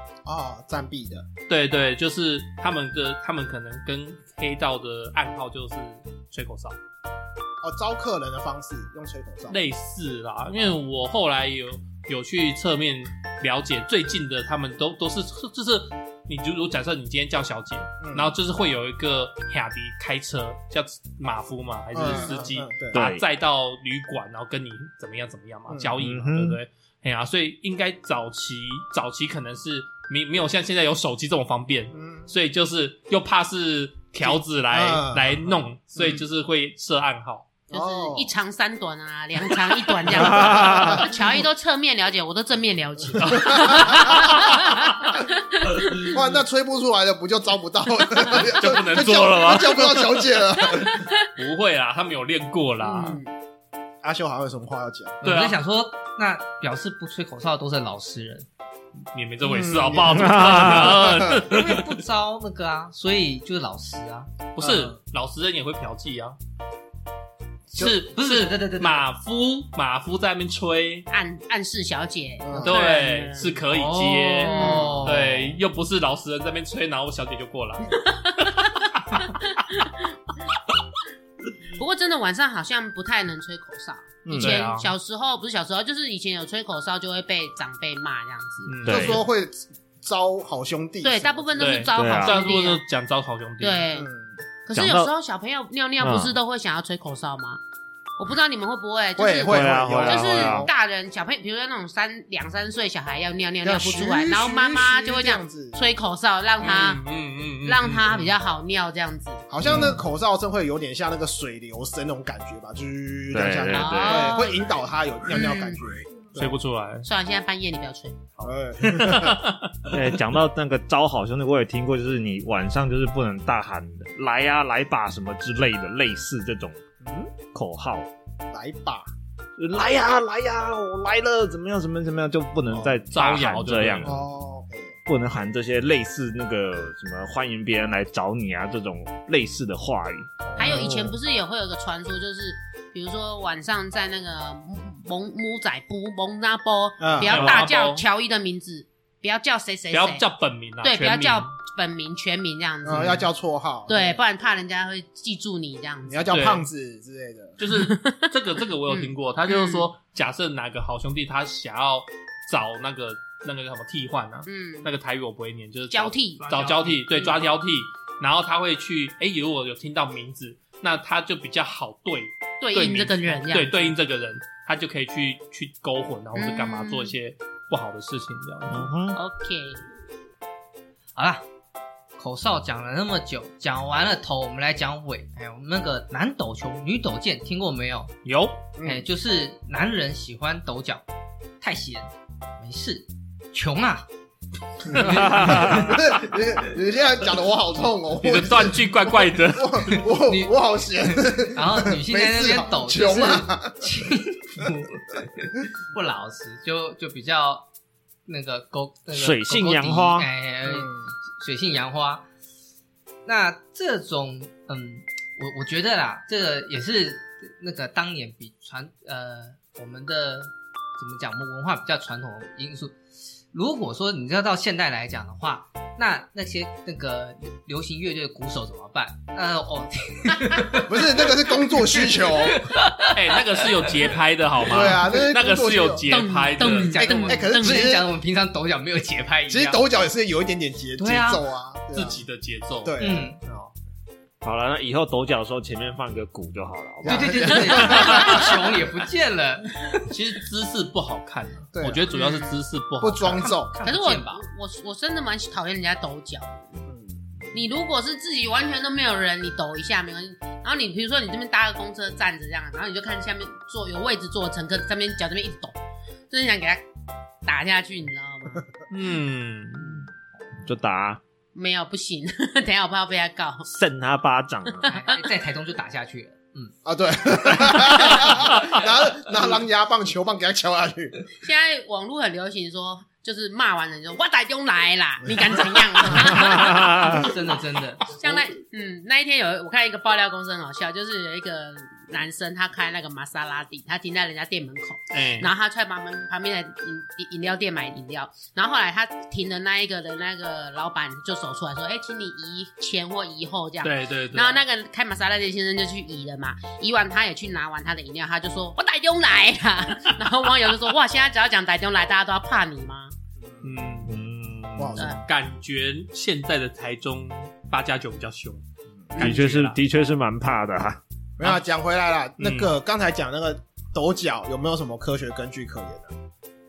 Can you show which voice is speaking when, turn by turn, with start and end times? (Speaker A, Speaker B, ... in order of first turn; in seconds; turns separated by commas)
Speaker A: 0.2-1.3, Speaker B: 1.5-6.8, Speaker A: 7.6-9.6, Speaker B: 9.5-37.5, Speaker A: 18.0-18.4, Speaker A: 21.9-23.0, Speaker C: 22.9-23.2, Speaker A: 25.7-25.9, Speaker C: 26.0-26.6, Speaker A: 31.9-32.3, Speaker A: 34.2-36.2, Speaker D: 37.7-46.2, Speaker A: 37.7-38.3, Speaker C: 40.2-41.1, Speaker A: 40.2-41.4, Speaker B: 43.2-45.1, Speaker A: 43.3-44.3, Speaker B: 45.8-46.2, Speaker A: 46.0-51.0, Speaker B: 48.3-50.4, Speaker D: 50.7-51.1, Speaker B: 51.4-53.2, Speaker D: 52.8-53.3, Speaker A: 54.0-55.2, Speaker B: 55.2-55.6, Speaker E: 55.2-58.5, Speaker B: 59.1-62.0, Speaker A: 59.4-61.5, Speaker C: 60.1-61.1, Speaker E: 61.3-64.3, Speaker B: 64.6-66.4, Speaker A: 64.6-64.9, Speaker B: 67.7-71.1, Speaker E: 67.8-69.0, Speaker D: 71.1-73.5, Speaker A: 72.4-72.8, Speaker B: 72.6-78.0, Speaker E: 73.6-75.6, Speaker D: 74.5-75.0, Speaker A: 74.6-75.1, Speaker D: 78.0-80.1, Speaker B: 79.0-79.4, Speaker D: 81.7-88.8, Speaker C: 84.2-84.7, Speaker B: 84.3-84.9, Speaker B: 88.7-89.2, Speaker C: 88.8-89.2, Speaker A: 88.9-91.8, Speaker D: 91.0-92.8, Speaker B: 91.6-93.9, Speaker C: 92.0-92.4, Speaker D: 93.6-94.1, Speaker A: 93.9-94.4, Speaker D: 94.7-97.6, Speaker C: 94.7-95.1, Speaker C: 96.0-96.3, Speaker D: 98.2-107.0, Speaker A: 99.2-100.7, Speaker C: 99.5-100.7, Speaker A: 103.6-105.8, Speaker B: 106.6-108.4, Speaker D: 107.7-109.5, Speaker A: 109.5-116.5, Speaker C: 109.7-110.0, Speaker C: 113.3-114.4, Speaker D: 113.7-114.7, Speaker D: 115.3-115.8, Speaker B: 116.3-117.1, Speaker D: 117.0-118.3, Speaker B: 118.3-120.0, Speaker A: 118.4-119.4, Speaker C: 119.9-126.8, Speaker A: 127.0-127.3, Speaker C: 127.5-128.1, Speaker A: 128.5-129.1, Speaker C: 129.6-134.2, Speaker B: 132.7-134.2, Speaker A: 134.0-135.0, Speaker C: 135.1-141.1, Speaker B: 140.5-140.9, Speaker D: 140.6-150.2, Speaker A: 147.0-147.6, Speaker B: 147.2-148.1, Speaker C: 147.4-147.7, Speaker B: 149.9-151.5, Speaker D: 150.8-153.3, Speaker A: 152.8-154.2, Speaker D: 153.9-156.4, Speaker A: 156.1-157.6, Speaker B: 156.3-156.7, Speaker B: 157.6-178.9, Speaker D: 157.7-158.3, Speaker D: 158.9-159.9, Speaker D: 164.5-164.9, Speaker D: 165.9-167.4, Speaker D: 172.6-173.9, Speaker D: 176.4-177.2, Speaker C: 178.7-179.2, Speaker D: 179.1-179.8, Speaker E: 181.2-181.5, Speaker E: 182.2-188.1, Speaker B: 188.2-188.6, Speaker A: 188.8-189.1, Speaker E: 188.8-191.0, Speaker E: 191.6-194.1, Speaker A: 194.9-204.1, Speaker E: 194.9-195.8, Speaker C: 195.0-196.0, Speaker B: 198.2-200.1, Speaker E: 200.1-200.6, Speaker E: 201.2-207.7, Speaker E: 208.3-212.3, Speaker C: 209.1-210.3, Speaker A: 210.7-211.1, Speaker E: 213.2-223.0, Speaker E: 223.5-234.1, Speaker A: 230.8-232.7, Speaker B: 233.1-237.0, Speaker A: 234.7-236.1, Speaker D: 236.1-237.9, Speaker E: 236.6-239.8, Speaker A: 236.9-238.1, Speaker A: 239.5-242.2, Speaker E: 241.0-241.4, Speaker B: 241.9-243.7, Speaker A: 242.8-243.4, Speaker E: 243.0-243.4, Speaker C: 244.4-247.6, Speaker A: 247.0-248.4, Speaker E: 247.1-250.1, Speaker B: 247.9-248.3, Speaker D: 248.2-248.5, Speaker B: 250.1-253.5, Speaker A: 251.7-252.1, Speaker D: 252.1-252.6, Speaker A: 253.0-253.7, Speaker E: 253.3-254.5, Speaker D: 253.8-256.8, Speaker A: 256.9-257.2, Speaker D: 257.5-265.8, Speaker D: 266.3-266.9, Speaker D: 267.4-268.7, Speaker B: 268.9-270.1, Speaker C: 270.6-271.2, Speaker D: 271.6-273.7, Speaker C: 273.7-274.9, Speaker D: 274.8-275.2, Speaker E: 274.9-276.7, Speaker A: 276.9-281.3, Speaker D: 281.4-287.3, Speaker C: 286.2-287.2, Speaker E: 286.9-288.3, Speaker D: 288.2-313.1, Speaker B: 295.1-295.5, Speaker B: 303.8-304.6, Speaker A: 313.4-313.8, Speaker B: 313.6-314.1, Speaker C: 314.1-315.0, Speaker A: 314.8-315.2, Speaker B: 315.0-318.6, Speaker B: 319.2-319.8, Speaker C: 319.2-321.0, Speaker A: 321.4-326.1, Speaker B: 322.4-322.8